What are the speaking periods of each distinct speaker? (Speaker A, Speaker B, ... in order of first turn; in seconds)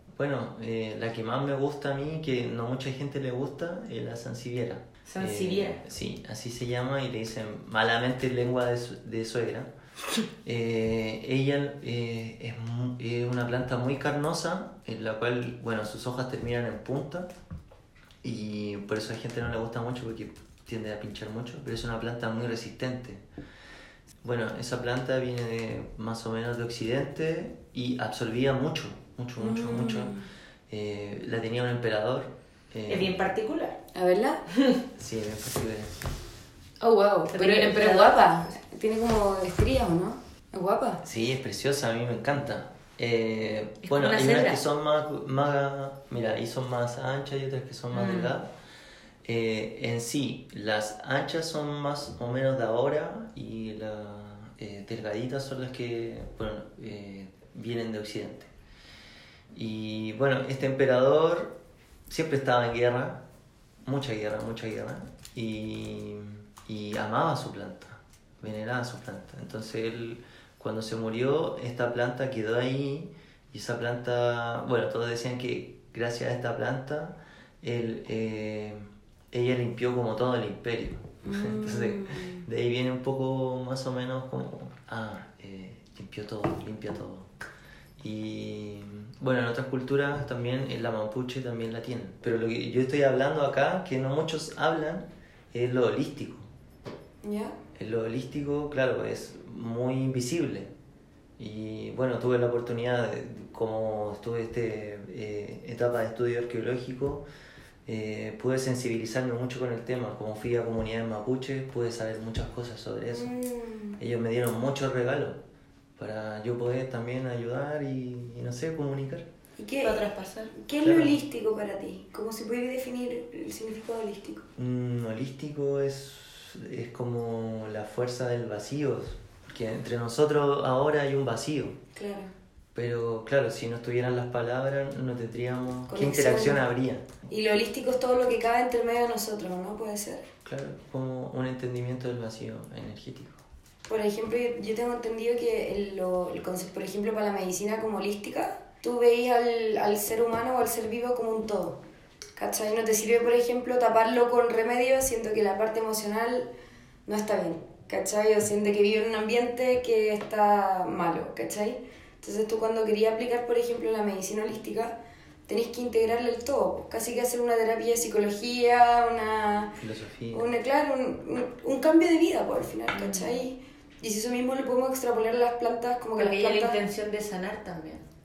Speaker A: 0.1-9.7, 10.4-17.3, 18.2-23.2, 24.2-30.2, 30.7-33.2, 35.0-36.0, 41.0-48.5, 49.2-58.5, 59.5-63.2, 63.8-87.3, 88.0-96.5, 97.8-100.7, 101.4-107.2, 107.8-113.3, 114.0-115.4, 116.0-119.3, 120.8-121.2, 124.6-131.8, 132.7-137.1, 140.4-143.4, 169.8-170.5
Speaker B: 5.0-5.8, 32.9-33.8, 34.5-34.8, 37.3-38.5, 43.8-44.6, 47.9-48.3, 119.8-120.5, 172.9-173.4, 176.2-178.0
Speaker C: 29.4-30.2, 33.9-34.4, 36.8-41.0, 81.2-82.4, 97.2-97.5, 113.1-114.0, 119.6-124.5, 131.9-132.3, 135.9-136.6, 137.3-140.2, 143.9-151.8, 152.3-156.5, 157.1-169.8, 170.3-176.8